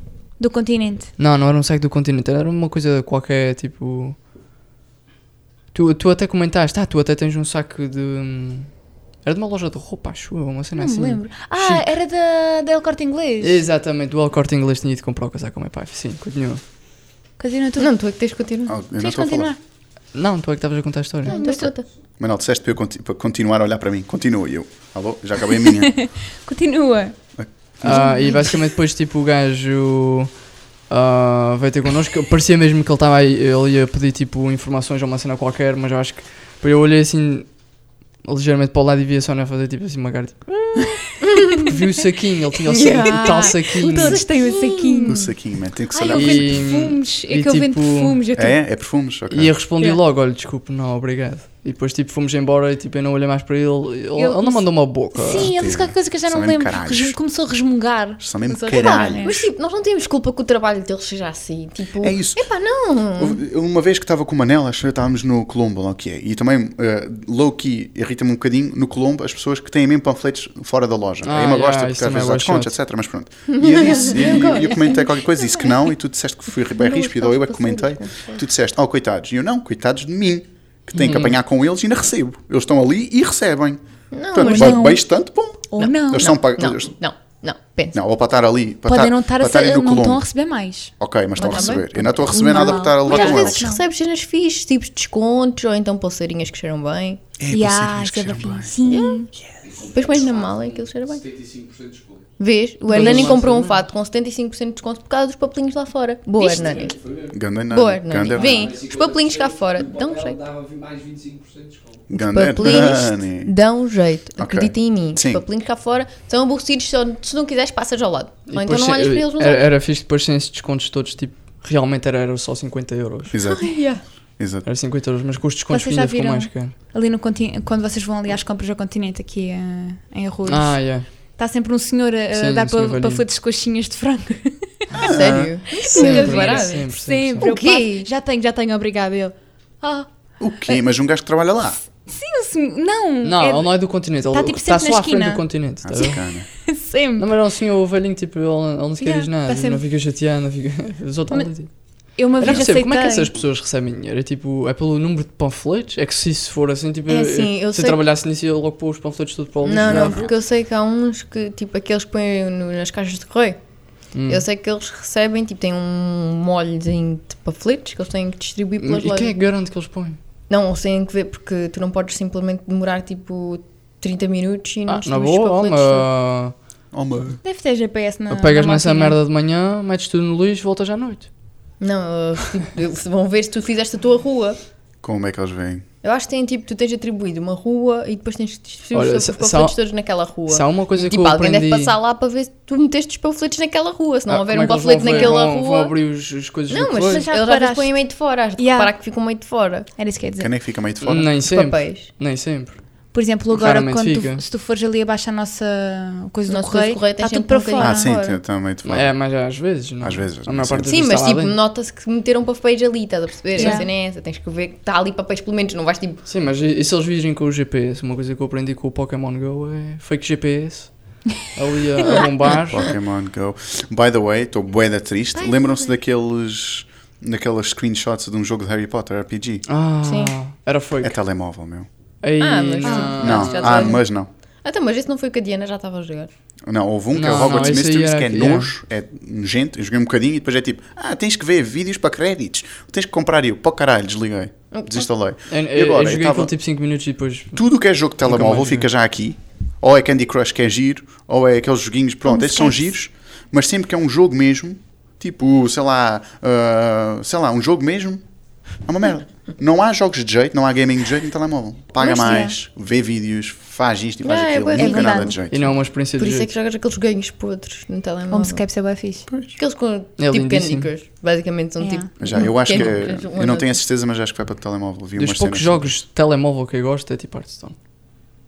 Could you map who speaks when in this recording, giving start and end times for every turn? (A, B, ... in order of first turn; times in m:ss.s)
0:00.4-0:01.1 A
0:01.2-0:04.2 B
0:05.7-0:08.7 B
0:09.2-0:11.9 B
0:10.8-0:13.6 A
0:13.4-0:16.6 B
0:17.4-0:17.9 A
0:17.8-0:18.8 C
0:18.7-0:19.5 D
0:19.0-0:19.6 A
0:20.1-0:21.4 B
0:21.2-0:21.9 C
0:21.3-0:21.7 A
0:22.2-0:26.0 D
0:25.6-0:27.2 A
0:27.4-0:28.0 D
0:27.8-0:30.3 B
0:27.9-0:28.5 A
0:30.9-0:37.5 B
0:38.2-0:44.2 B
0:41.2-0:41.8 C
0:42.7-0:45.3 C
0:42.8-0:45.3 A
0:45.1-0:46.6 D
0:45.9-0:48.6 A
0:46.1-0:48.2 B
0:48.4-0:49.5 D
0:49.3-0:55.5 B
0:54.2-0:59.5 A
0:55.4-0:57.2 D
0:58.2-0:59.3 D
0:58.7-1:03.4 C
1:02.0-1:02.4 D
1:03.2-1:23.8 D
1:11.2-1:12.7 B
1:13.5-1:15.2 C
1:16.8-1:18.4 C
1:20.9-1:21.4 B
1:24.1-1:24.9 C
1:24.3-1:26.9 D
1:24.4-1:25.0 A
1:25.7-1:26.4 A
1:25.8-1:28.0 C
1:27.9-1:30.2 D
1:28.9-1:33.8 A
1:31.0-1:33.7 D
1:31.4-1:37.2 C
1:37.4-1:38.8 D
1:37.5-1:39.3 A
1:38.9-1:41.2 C
1:39.6-1:42.3 E
1:42.4-1:47.0 C
1:42.9-1:43.8 B
1:42.9-1:43.2 A
1:46.4-1:47.4 E
1:47.3-1:48.7 D
1:47.7-1:50.4 C
1:48.3-1:52.1 E
1:52.1-1:53.5 D
1:52.1-1:59.7 C
1:54.4-1:55.4 D
1:58.5-2:03.4 B
2:03.3-2:03.7 D
2:03.4-2:04.0 C
2:04.4-2:04.7 D
2:04.6-2:06.7 B
2:05.7-2:10.8 A
2:10.5-2:11.1 B
2:11.4-2:15.0 A
2:12.3-2:13.2 B
2:14.9-2:15.5 D
2:15.0-2:16.8 C
2:15.3-2:17.5 B
2:15.7-2:20.1 A
2:17.4-2:18.1 C
2:20.4-2:21.8 D
2:22.1-2:23.7 A
2:23.2-2:26.2 B
2:24.3-2:25.4 A
2:25.8-2:26.5 D
2:26.0-2:27.3 A
2:27.2-2:31.7 B
2:29.0-2:29.8 A
2:32.1-2:33.3 A
2:32.4-2:40.3 B
2:37.1-2:38.0 C
2:39.6-2:43.6 C
2:39.8-2:40.3 D
2:44.2-2:44.4 B
2:44.3-2:49.4 C
2:48.8-2:50.2 B
2:50.5-2:56.1 C
2:54.9-2:56.6 B
2:56.9-2:57.4 D
2:57.4-2:59.2 A
2:58.3-3:01.3 B
3:01.8-3:04.6 C
3:05.0-3:05.8 D
3:06.0-3:16.0 C
3:08.9-3:09.8 B
3:10.5-3:12.0 B
3:14.3-3:17.2 B
3:16.7-3:19.9 C
3:17.1-3:18.0 A
3:18.6-3:18.9 A
3:20.0-3:20.5 A
3:20.4-3:21.3 D
3:21.0-3:22.8 B
3:21.4-3:22.1 C
3:23.1-3:28.4 A
3:23.5-3:24.4 B
3:26.5-3:28.3 C
3:27.8-3:29.1 D
3:28.8-3:31.6 B
3:30.0-3:30.9 D
3:30.9-3:36.2 C
3:33.6-3:33.9 A
3:36.3-3:42.9 B
3:42.5-3:49.6 D
3:45.4-3:45.9 C
3:49.7-3:51.2 B
3:50.0-3:50.3 C
3:51.0-3:51.9 D
3:52.2-3:54.0 B
3:52.4-3:54.0 C
3:52.8-3:53.4 A
3:53.2-3:54.3 D
3:54.6-3:56.3 C
3:56.7-4:06.5 D
3:57.1-3:58.7 B
4:04.7-4:05.1 C
4:05.5-4:07.6 B
4:07.6-4:18.2 D
4:08.2-4:08.9 B
4:12.3-4:12.9 A
4:18.8-4:25.7 D
4:22.0-4:22.5 A
4:24.2-4:25.4 C
4:24.8-4:25.4 A
4:25.5-4:26.5 B
4:26.2-4:28.6 C
4:28.3-4:29.3 A
4:29.3-4:29.6 D
4:29.6-4:33.8 C
4:30.2-4:30.9 B
4:31.8-4:32.4 A
4:32.2-4:36.0 D
4:35.2-4:37.8 B